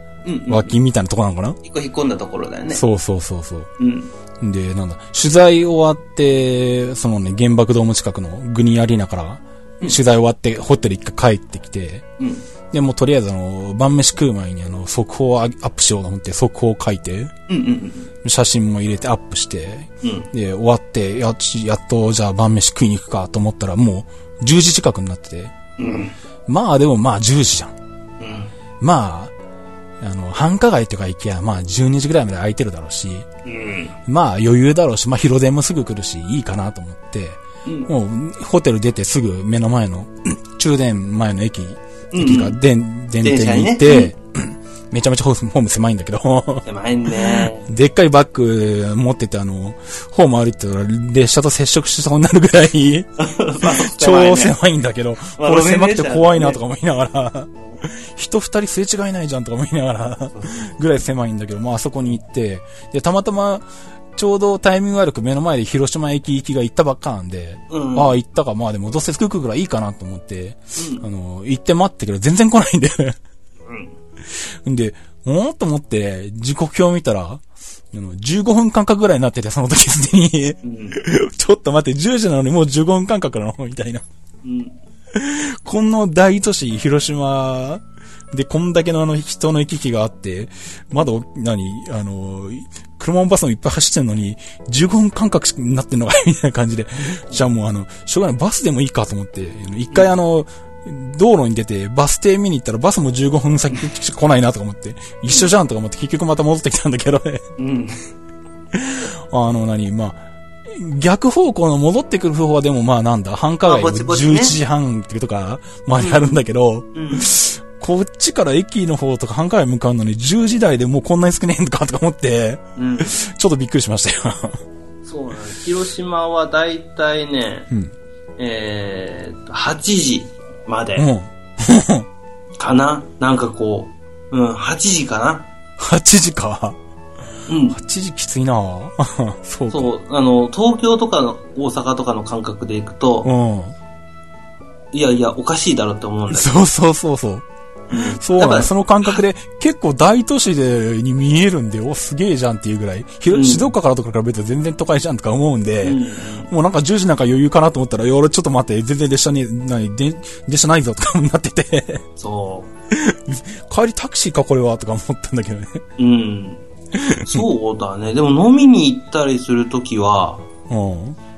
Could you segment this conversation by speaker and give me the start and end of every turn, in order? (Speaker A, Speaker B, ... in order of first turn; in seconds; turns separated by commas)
Speaker A: 0.2-0.7, Speaker B: 0.5-1.6, Speaker A: 1.6-2.8, Speaker B: 2.7-3.7, Speaker A: 3.8-4.1, Speaker B: 4.4-12.1, Speaker A: 12.2-12.4, Speaker B: 12.7-17.3, Speaker A: 17.5-18.1, Speaker B: 18.2-25.5, Speaker A: 20.0-20.3, Speaker A: 25.8-26.1, Speaker B: 26.5-27.7, Speaker A: 28.2-28.5, Speaker B: 28.8-29.3, Speaker B: 30.0-33.3, Speaker A: 33.5-34.0, Speaker B: 34.1-46.7, Speaker A: 37.6-37.9, Speaker A: 42.1-42.6, Speaker A: 43.2-44.1, Speaker A: 46.7-47.7, Speaker B: 47.2-53.1, Speaker A: 53.2-54.5, Speaker B: 53.6-73.2, Speaker A: 55.4-56.6, Speaker A: 60.4-60.6, Speaker A: 67.7-68.2, Speaker A: 70.8-71.0, Speaker A: 73.7-74.0, Speaker B: 74.3-84.0, Speaker A: 80.6-81.0, Speaker A: 84.4-84.8, Speaker B: 85.1-107.4, Speaker A: 107.6-108.0, Speaker B: 108.7-124.6, Speaker A: 113.7-114.6, Speaker A: 116.0-116.4, Speaker A: 117.0-117.3, Speaker A: 122.8-123.2, Speaker A: 125.0-127.7, Speaker A: 128.4-131.1, Speaker B: 131.0-132.1, Speaker A: 132.6-135.5, Speaker B: 135.8-136.8, Speaker A: 137.5-137.8, Speaker B: 137.7-139.9, Speaker A: 139.7-143.3, Speaker B: 143.2-143.8, Speaker A: 144.9-146.6, Speaker B: 146.3-147.5, Speaker A: 147.9-149.2, Speaker B: 148.0-162.0, Speaker A: 153.3-153.7, Speaker A: 155.8-156.5, Speaker A: 162.2-162.7, Speaker B: 162.9-165.8, Speaker A: 166.0-166.6, Speaker B: 166.9-167.4, Speaker A: 167.2-170.4, Speaker B: 170.7-171.2